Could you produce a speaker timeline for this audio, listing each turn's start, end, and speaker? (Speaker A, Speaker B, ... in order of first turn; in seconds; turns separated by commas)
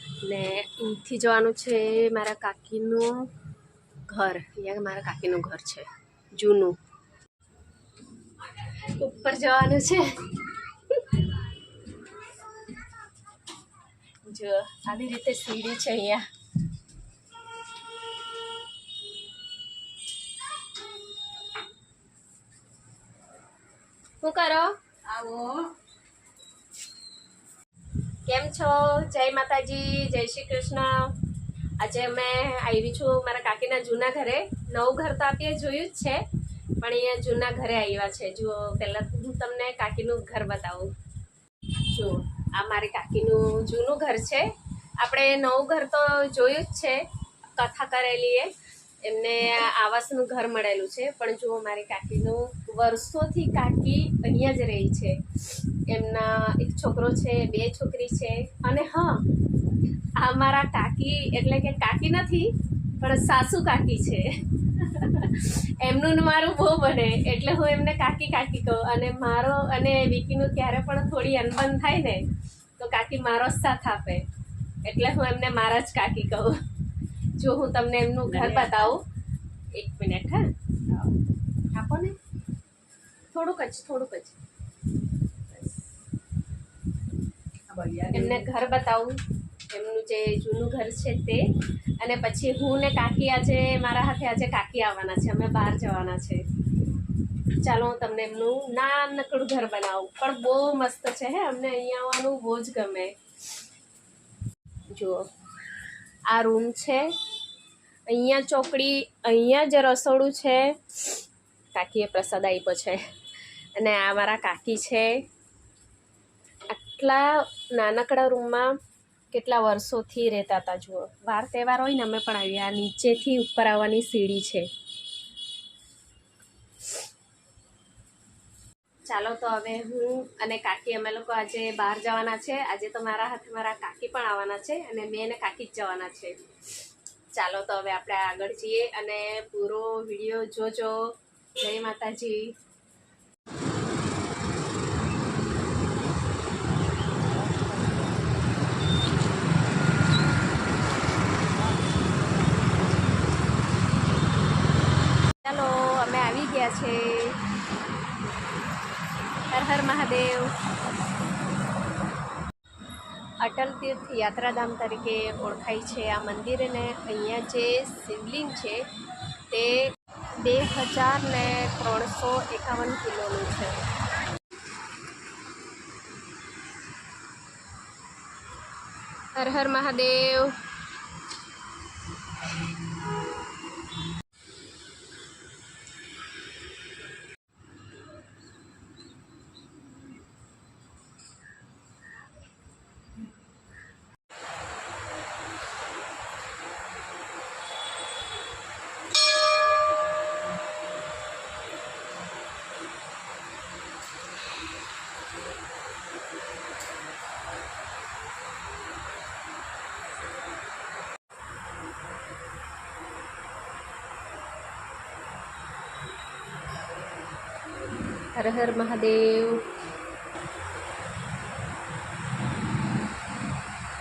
Speaker A: 0.2-3.3, Speaker A: 4.1-6.8, Speaker A: 8.4-11.5, Speaker A: 14.2-16.2, Speaker A: 24.2-24.8, Speaker B: 25.1-25.7, Speaker A: 28.2-31.1, Speaker A: 31.8-36.2, Speaker A: 36.8-40.9, Speaker A: 41.8-44.5, Speaker A: 45.0-47.0, Speaker A: 47.6-48.5, Speaker A: 49.0-59.2, Speaker A: 60.2-72.2, Speaker A: 72.8-74.2, Speaker A: 74.8-76.6, Speaker A: 77.4-79.0, Speaker B: 78.4-78.9, Speaker A: 79.7-80.5, Speaker A: 81.7-82.1, Speaker A: 83.3-84.4, Speaker B: 87.7-88.4, Speaker A: 88.1-89.2, Speaker A: 89.7-91.4, Speaker A: 92.0-96.4, Speaker A: 97.6-103.2, Speaker A: 104.9-105.2, Speaker A: 106.3-107.1, Speaker A: 108.1-113.0, Speaker A: 113.7-115.2, Speaker A: 116.7-118.7, Speaker A: 119.3-124.7, Speaker A: 129.1-136.4, Speaker A: 137.3-141.0, Speaker A: 141.6-142.5, Speaker B: 147.4-148.1, Speaker A: 155.4-157.4, Speaker A: 159.5-160.5, Speaker A: 163.4-168.8, Speaker A: 169.5-173.8, Speaker A: 179.3-180.6, Speaker A: 218.3-219.7